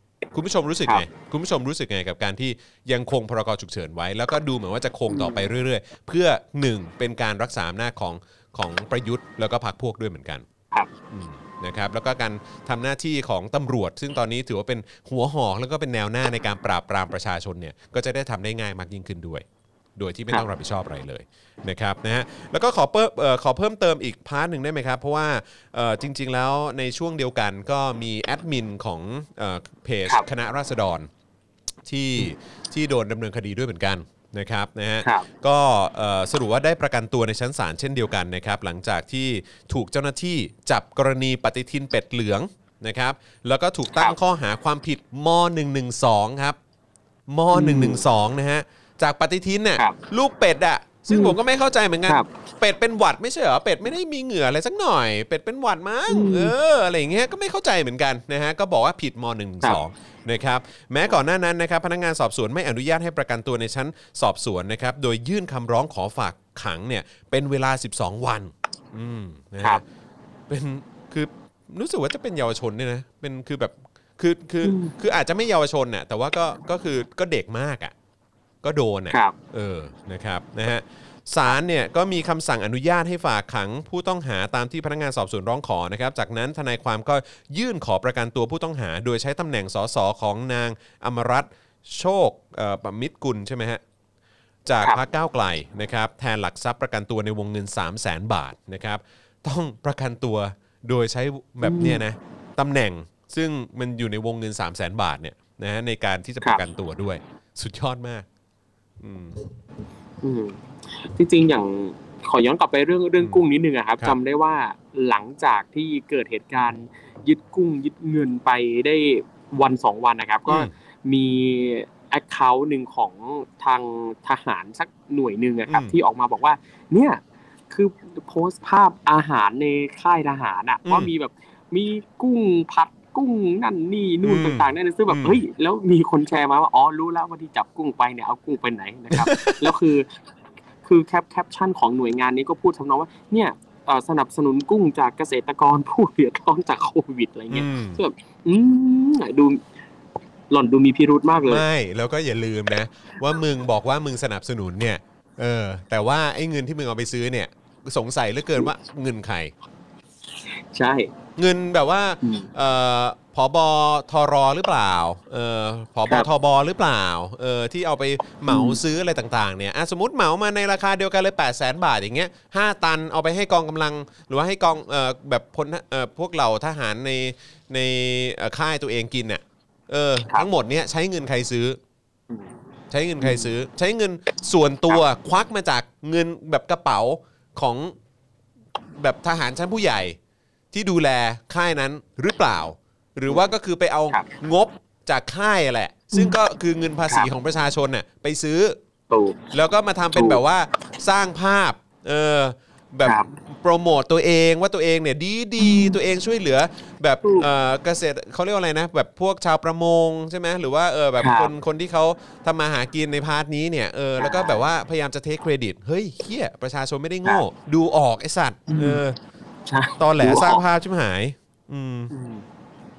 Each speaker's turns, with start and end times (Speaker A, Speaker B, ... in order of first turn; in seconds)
Speaker A: 0.3-10.4, 11.1-19.4, 20.0-31.1, 31.9-46.6, 47.3-69.8, 70.5-77.9, 78.6-93.8, 94.6-108.2, 109.0-109.4, 113.2-113.4, 120.5-120.7, 125.7-125.9, 130.8-131.1, 134.2-135.4, 139.1-139.7, 147.5-148.0, 151.4-159.5, 161.4-181.8, 182.9-187.9, 189.0-190.2, 190.7-198.8, 199.5-219.2, 220.0-222.1
Speaker B: 5.1-5.5, 47.5-48.0, 51.1-51.4, 56.1-56.5, 74.6-74.9, 101.6-102.0, 110.2-140.1, 140.8-149.6, 150.5-151.6, 160.7-161.1, 162.2-162.5, 168.5-168.8, 183.2-183.5, 199.1-199.5, 200.1-200.4, 203.0-203.3, 205.6-206.0, 211.2-211.5, 214.2-214.6, 218.7-219.0, 219.7-220.6, 222.1-222.4